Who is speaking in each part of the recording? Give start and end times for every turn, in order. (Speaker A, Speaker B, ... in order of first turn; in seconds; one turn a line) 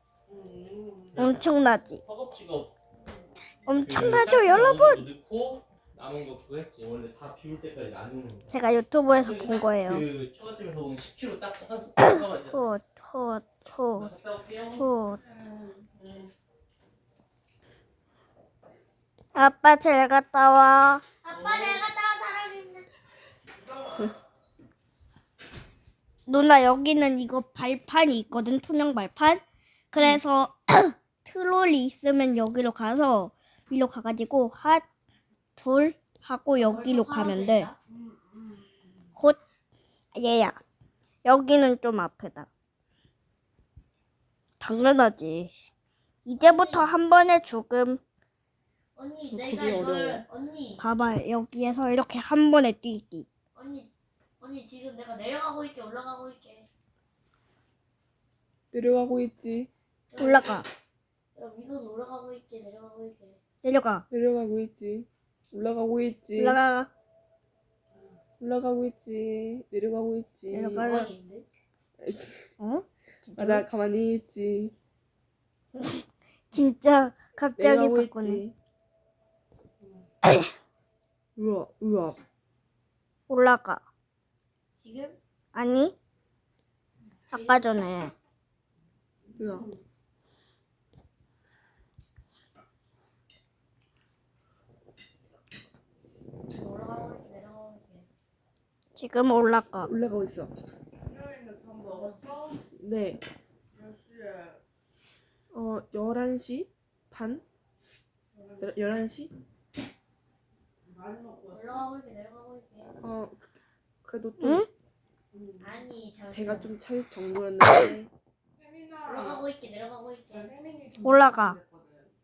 Speaker A: 0.3-1.2
Speaker B: 1.1-1.4
Speaker C: 1.2-2.0
Speaker B: 2.0-2.7
Speaker A: 3.0-3.3
Speaker C: 3.7-5.0
Speaker B: 3.8-8.5
Speaker C: 8.5-10.1
Speaker B: 9.2-12.6
Speaker C: 12.1-14.1
Speaker B: 14.0-14.9
Speaker C: 14.8-15.2
Speaker A: 15.1-15.9
Speaker B: 16.0-16.3
Speaker C: 19.4-21.0
Speaker D: 21.2-22.9
Speaker B: 21.3-21.9
Speaker B: 23.5-24.2
Speaker C: 26.3-34.9
Speaker C: 35.6-37.7
Speaker D: 36.6-37.8
Speaker A: 37.9-39.1
Speaker C: 40.1-40.6
Speaker C: 41.2-42.5
Speaker C: 44.6-45.5
Speaker C: 46.2-48.0
Speaker D: 46.4-46.9
Speaker D: 49.0-50.8
Speaker E: 49.3-50.2
Speaker C: 50.8-53.3
Speaker D: 53.5-56.7
Speaker E: 58.7-59.7
Speaker D: 60.1-60.6
Speaker C: 60.2-60.7
Speaker D: 61.4-63.4
Speaker C: 63.6-64.0
Speaker E: 64.1-66.6
Speaker C: 66.4-66.9
Speaker A: 67.9-68.2
Speaker E: 68.4-70.9
Speaker C: 70.5-71.1
Speaker D: 70.7-71.5
Speaker E: 72.0-72.5
Speaker C: 72.6-73.7
Speaker E: 73.4-74.7
Speaker C: 75.8-78.4
Speaker E: 77.6-78.6
Speaker A: 79.8-80.1
Speaker E: 81.4-82.2
Speaker C: 83.3-83.8
Speaker D: 84.8-85.2
Speaker C: 85.5-85.9
Speaker D: 87.3-88.1
Speaker C: 87.3-88.1
Speaker A: 89.3-89.8
Speaker E: 89.4-89.7
Speaker D: 96.5-98.1
Speaker C: 99.0-99.9
Speaker E: 99.8-100.5
Speaker A: 101.0-102.7
Speaker D: 101.8-102.2
Speaker E: 102.8-103.2
Speaker A: 103.7-104.6
Speaker E: 105.5-107.4
Speaker A: 108.3-109.0
Speaker E: 108.6-109.3
Speaker A: 110.8-111.9
Speaker D: 111.5-113.0
Speaker E: 113.0-113.5
Speaker E: 114.0-114.7
Speaker C: 114.4-114.7
Speaker A: 115.3-115.9
Speaker D: 115.6-116.7
Speaker E: 116.3-118.1
Speaker A: 118.6-119.5
Speaker D: 119.1-120.5
Speaker A: 120.3-122.1
Speaker C: 121.0-121.6